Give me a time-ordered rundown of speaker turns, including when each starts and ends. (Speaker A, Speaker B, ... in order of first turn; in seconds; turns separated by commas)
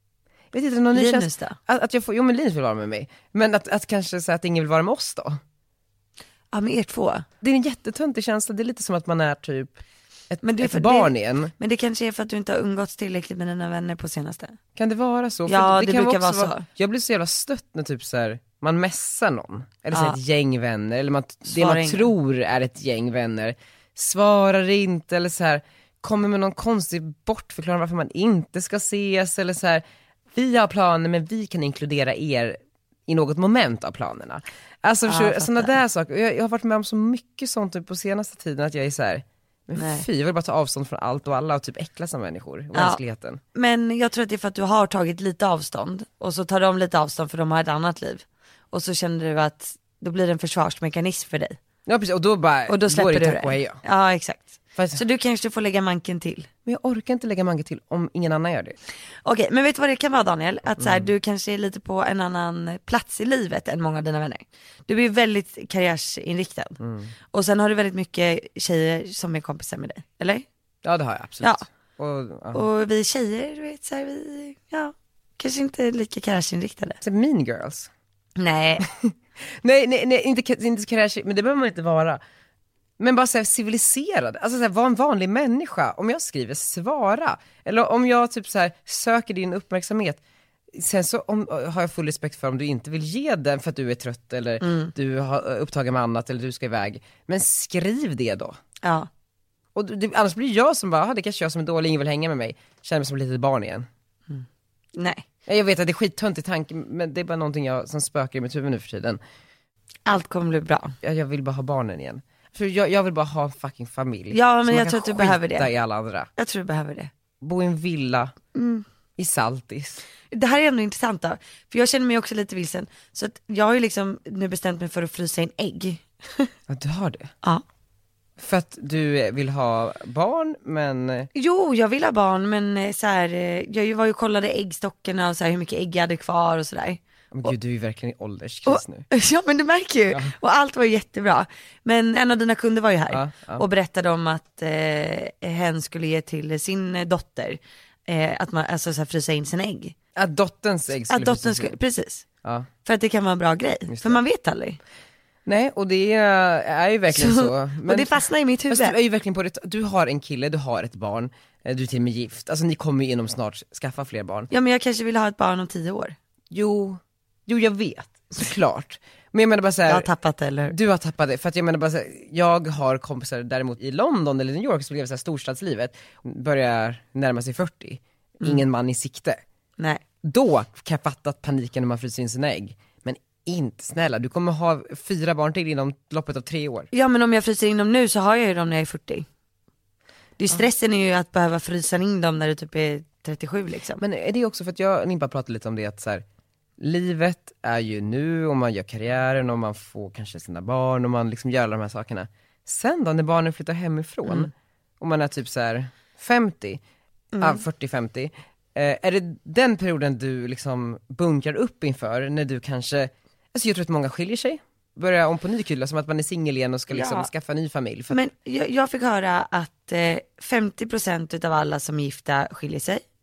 Speaker A: 0.5-5.4, Speaker B: 0.9-1.6, Speaker B: 6.5-7.3, Speaker A: 7.4-11.5, Speaker B: 10.4-14.6, Speaker A: 14.8-43.4, Speaker B: 15.5-16.6, Speaker B: 19.9-20.2, Speaker B: 21.5-22.1, Speaker B: 35.1-35.7, Speaker B: 39.8-40.0, Speaker B: 42.7-43.0, Speaker B: 43.5-51.6, Speaker A: 51.9-53.8, Speaker B: 52.7-56.5, Speaker A: 54.8-55.0, Speaker A: 56.7-58.8, Speaker B: 59.2-66.8, Speaker A: 60.8-61.1, Speaker A: 66.8-67.1, Speaker B: 67.3-70.5, Speaker A: 70.8-72.6, Speaker B: 72.5-77.0, Speaker A: 77.0-77.9, Speaker B: 78.4-78.9, Speaker A: 78.8-82.2, Speaker A: 83.0-90.2, Speaker A: 90.7-98.6, Speaker B: 94.6-94.9, Speaker B: 98.8-99.1, Speaker A: 99.8-103.9, Speaker B: 104.3-105.2, Speaker A: 105.5-109.2, Speaker B: 110.1-111.0, Speaker A: 111.0-116.3, Speaker B: 114.3-115.7, Speaker B: 116.4-117.1, Speaker A: 117.4-118.3, Speaker B: 118.5-118.8, Speaker A: 119.2-120.0, Speaker B: 120.3-126.5, Speaker A: 126.7-127.3, Speaker A: 128.4-131.3, Speaker B: 131.3-137.5, Speaker A: 137.3-139.1, Speaker B: 138.7-149.9, Speaker A: 143.1-143.7, Speaker A: 150.2-151.8, Speaker B: 151.1-152.2, Speaker B: 152.8-154.8, Speaker A: 153.9-154.2, Speaker A: 155.5-164.5, Speaker B: 157.1-159.0, Speaker B: 164.5-166.2, Speaker A: 166.5-170.1, Speaker B: 169.9-170.8, Speaker A: 170.7-179.4, Speaker A: 180.2-186.9, Speaker B: 186.9-189.3, Speaker B: 190.4-194.0, Speaker A: 194.0-196.2, Speaker A: 196.8-206.8, Speaker B: 207.3-207.6, Speaker A: 207.4-218.2, Speaker B: 216.9-217.3, Speaker B: 218.1-223.0